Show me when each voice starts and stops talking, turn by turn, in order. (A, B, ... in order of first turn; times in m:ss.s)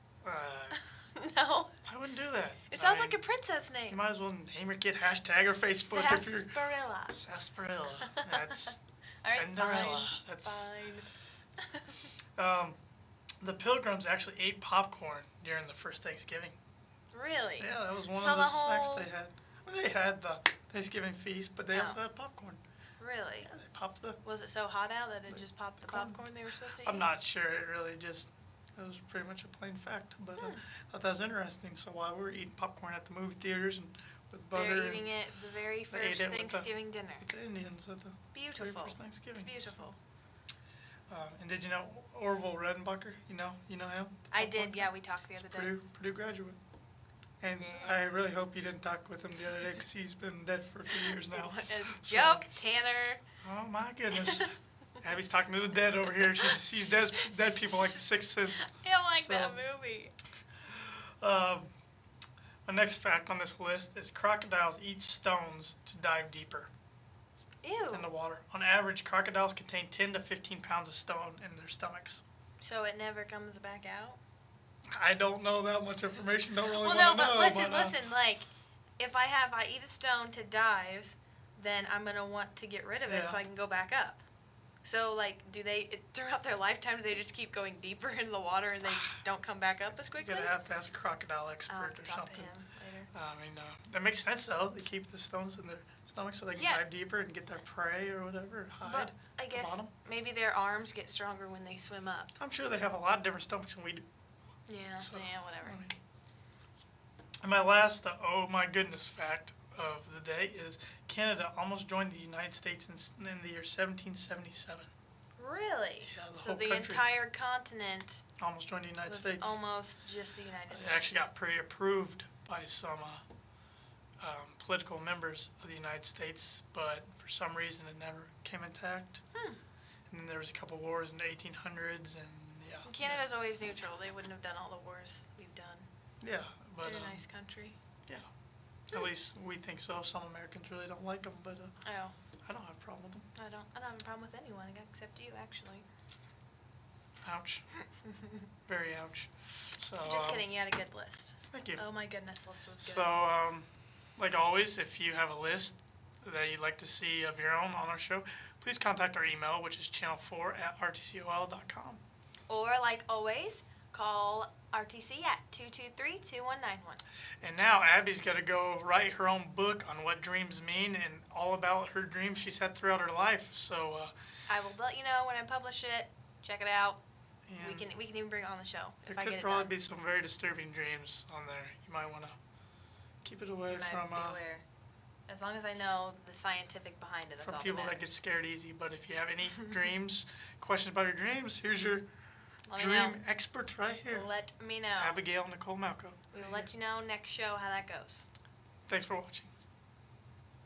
0:00.2-0:00.8 A
0:00.7-0:01.8 B
0:01.9-0:03.2 A
0:02.7-0:04.0 B
0:03.9-0:06.6 A
0:05.3-0:07.2 B
0:07.1-0:10.7 A
0:08.0-0:12.1 B
0:12.4-0:12.8 A
0:13.4-0:16.6 A
0:17.1-0:19.1 B
0:17.6-0:22.6 A
0:21.7-0:22.0 B
0:23.0-0:23.5 B
0:23.4-0:24.2 A
0:24.2-0:27.1 B
0:25.3-0:26.2 A
0:26.8-0:35.1 A
0:30.4-0:30.6 B
0:34.5-0:37.3 B
0:35.9-0:39.8 A
0:38.3-0:40.0 B
0:41.1-0:46.6 A
0:44.3-0:45.8 B
0:47.4-0:52.5 A
0:47.6-0:48.0 B
0:50.9-0:53.2 B
0:53.4-0:59.6 A
0:54.2-0:54.5 B
0:56.2-1:00.1 B
1:00.6-1:01.7 A
1:02.6-1:06.7 A
1:07.6-1:08.1 B
1:07.9-1:12.2 A
1:12.6-1:14.2 B
1:14.9-1:18.0 A
1:16.8-1:24.2 B
1:23.1-1:23.4 A
1:24.8-1:30.5 B
1:28.9-1:29.2 A
1:30.2-1:32.5 A
1:31.7-1:33.1 B
1:33.1-1:39.9 A
1:36.6-1:36.8 B
1:38.8-1:42.4 B
1:42.4-1:44.0 A
1:44.7-1:45.8 B
1:45.0-1:46.0 A
1:47.4-1:54.9 A
1:55.4-1:58.3 B
1:56.0-1:57.0 A
1:58.4-1:59.6 A
1:59.1-2:01.3 B
2:00.7-2:03.2 A
2:04.2-2:09.2 A
2:09.3-2:09.6 B
2:10.1-2:13.3 A
2:12.8-2:15.9 B
2:16.2-2:17.2 A
2:16.8-2:17.8 B
2:18.9-2:21.7 A
2:21.8-2:22.2 B
2:22.5-2:23.3 A
2:23.3-2:25.9 B
2:27.2-2:27.7 A
2:28.7-2:30.5 A
2:30.0-2:33.2 B
2:31.5-2:31.8 A
2:32.8-2:42.0 A
2:42.5-2:47.0 B
2:47.4-2:54.1 A
2:54.5-2:57.0 B
2:57.5-2:57.9 A
2:57.6-2:59.7 B
2:59.1-3:02.4 A
3:03.2-3:04.4 A
3:03.7-3:04.6 B
3:05.3-3:08.1 B
3:07.4-3:12.1 A
3:12.7-3:13.2 B
3:12.7-3:14.3 A
3:14.1-3:15.2 B
3:15.0-3:16.7 A
3:16.3-3:18.3 B
3:18.9-3:19.5 A